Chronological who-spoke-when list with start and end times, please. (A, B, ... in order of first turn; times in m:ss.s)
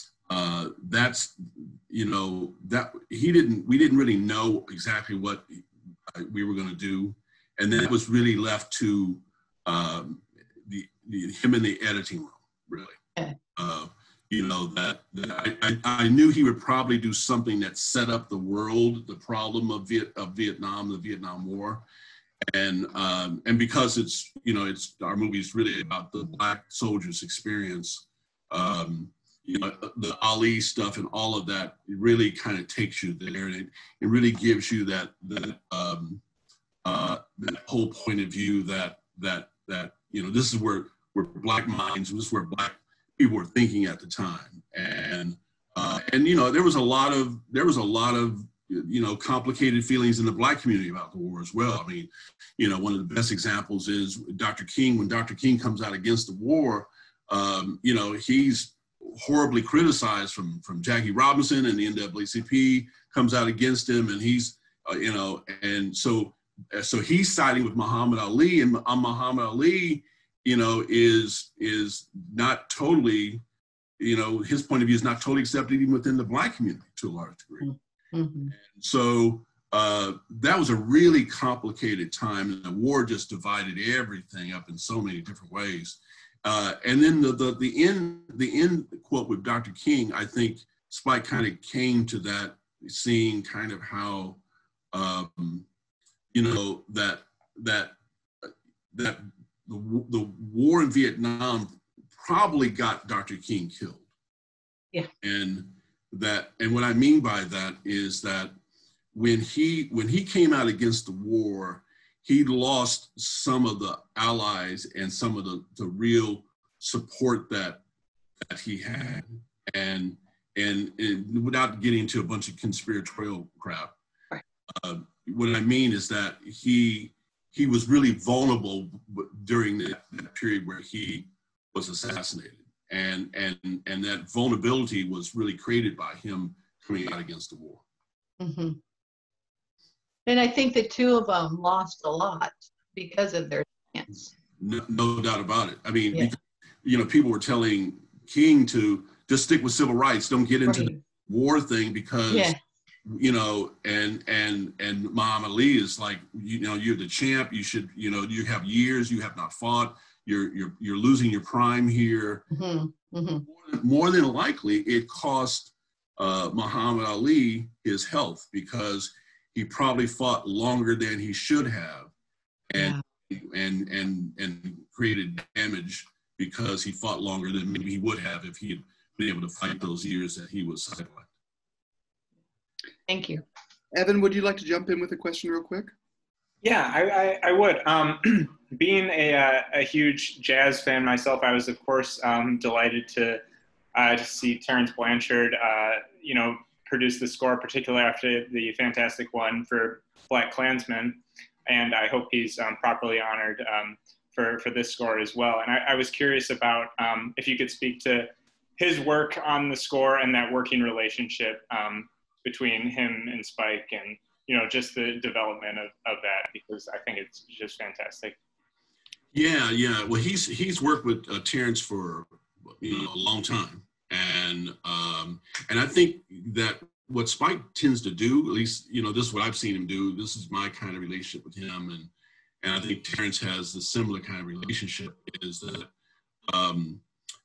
0:00.3-0:13.0 A
0:13.6-0:21.8 A
0:22.5-0:36.2 A
0:36.8-1:13.4 A
1:14.0-1:17.7 A
1:17.6-1:18.5 B
1:18.5-1:34.4 A
1:34.9-1:35.6 A
1:36.3-1:44.0 A
1:45.2-1:48.5 A
1:49.1-1:57.8 A
1:58.5-2:04.0 A
2:04.8-2:17.8 A
2:18.4-2:18.8 B
2:20.2-2:24.3 B
2:24.6-2:32.5 A
2:30.6-2:31.0 B
2:32.3-2:32.6 B
2:33.0-2:42.4 A
2:42.5-2:43.4 B
2:43.4-2:52.1 A
2:52.7-3:01.3 A
3:03.1-3:03.4 B
3:03.9-3:05.9 C
3:06.6-3:13.4 D
3:13.9-3:38.4 D
3:39.3-3:52.1 A
3:52.6-3:55.9 A
3:56.5-3:57.0 A